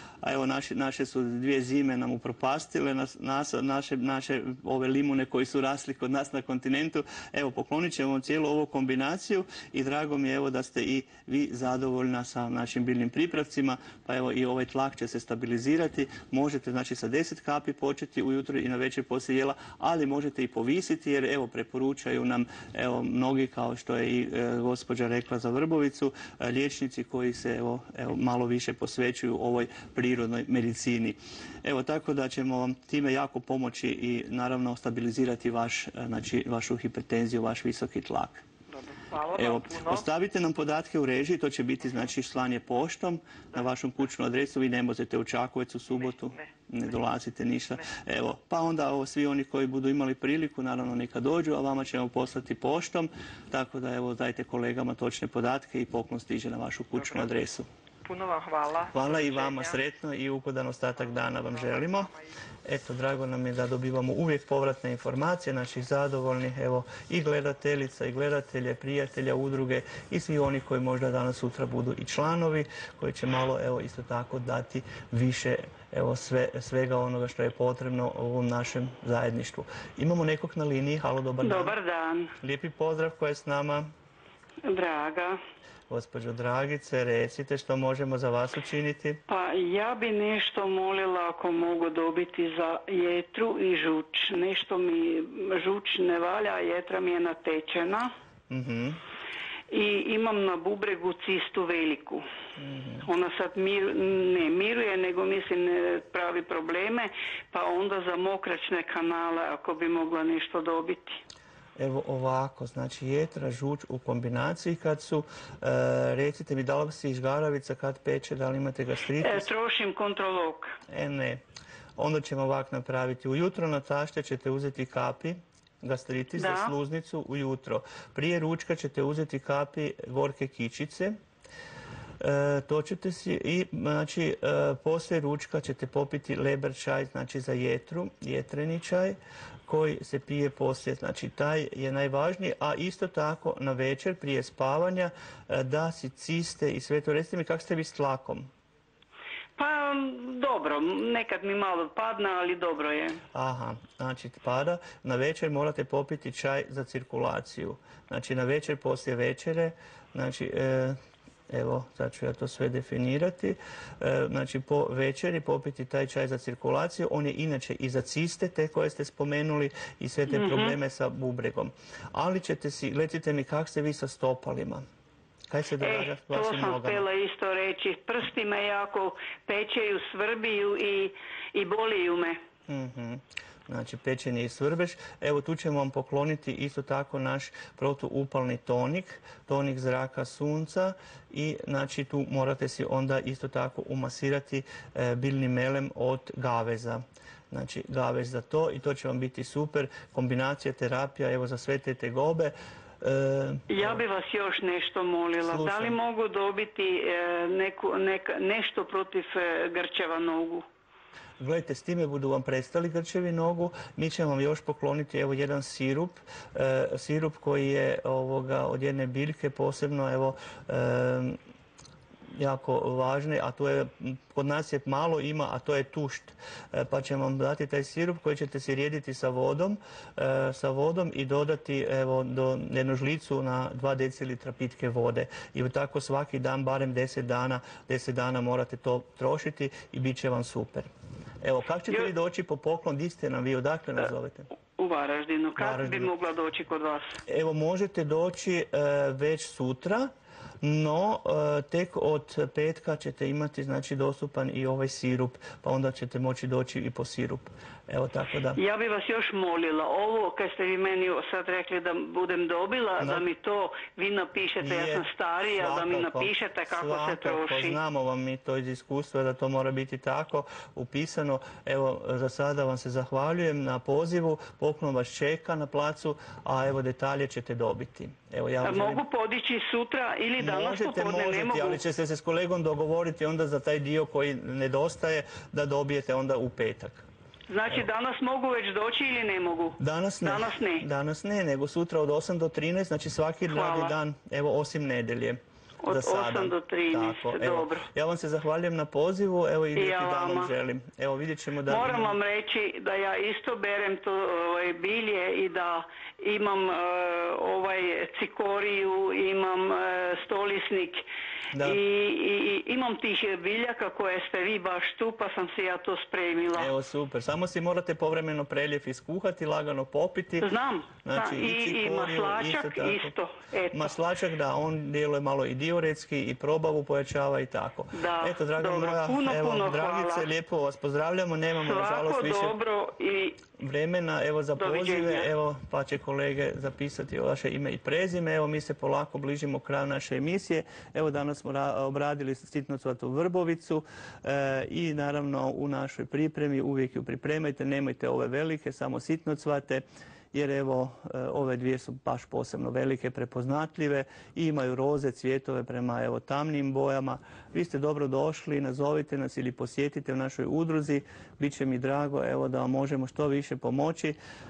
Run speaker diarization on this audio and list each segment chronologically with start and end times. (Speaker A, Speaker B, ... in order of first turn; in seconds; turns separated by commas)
Speaker A: 0.2-38.4, Speaker B: 38.7-40.1, Speaker A: 39.3-57.7, Speaker B: 45.9-46.5, Speaker B: 56.9-57.3, Speaker B: 58.0-59.8, Speaker A: 58.9-62.1, Speaker B: 61.0-62.3, Speaker A: 62.6-81.8, Speaker C: 81.4-82.3, Speaker A: 82.4-83.9, Speaker C: 84.6-85.4, Speaker A: 85.9-89.2, Speaker C: 89.3-98.1, Speaker A: 98.5-99.0, Speaker C: 99.7-102.2, Speaker A: 102.6-103.1, Speaker C: 103.0-111.2, Speaker A: 111.8-119.5, Speaker C: 119.2-120.8, Speaker A: 120.9-121.4, Speaker A: 122.0-131.2, Speaker C: 126.4-126.7, Speaker A: 132.2-148.5, Speaker C: 149.6-153.2, Speaker A: 153.3-161.0, Speaker A: 161.5-174.8, Speaker C: 170.3-170.8, Speaker A: 175.5-177.0, Speaker C: 175.8-182.4, Speaker A: 182.7-204.0, Speaker C: 203.7-210.6, Speaker A: 205.4-205.9, Speaker A: 211.4-221.4, Speaker A: 222.4-240.9, Speaker A: 241.4-244.5, Speaker C: 244.8-247.2, Speaker A: 245.6-246.1, Speaker A: 247.3-250.1, Speaker A: 250.6-258.6, Speaker C: 258.6-267.8, Speaker A: 264.6-279.0, Speaker C: 278.6-281.8, Speaker A: 280.4-287.1, Speaker C: 287.5-290.8, Speaker A: 289.8-302.1, Speaker C: 293.5-293.9, Speaker C: 295.8-297.8, Speaker C: 299.8-300.5, Speaker C: 301.7-311.0, Speaker A: 311.5-311.8, Speaker C: 311.6-316.7, Speaker A: 316.5-320.5, Speaker C: 320.4-323.9, Speaker A: 321.0-323.1, Speaker A: 323.7-332.5, Speaker C: 327.9-330.2, Speaker C: 331.6-333.4, Speaker A: 333.6-364.2, Speaker C: 334.6-335.3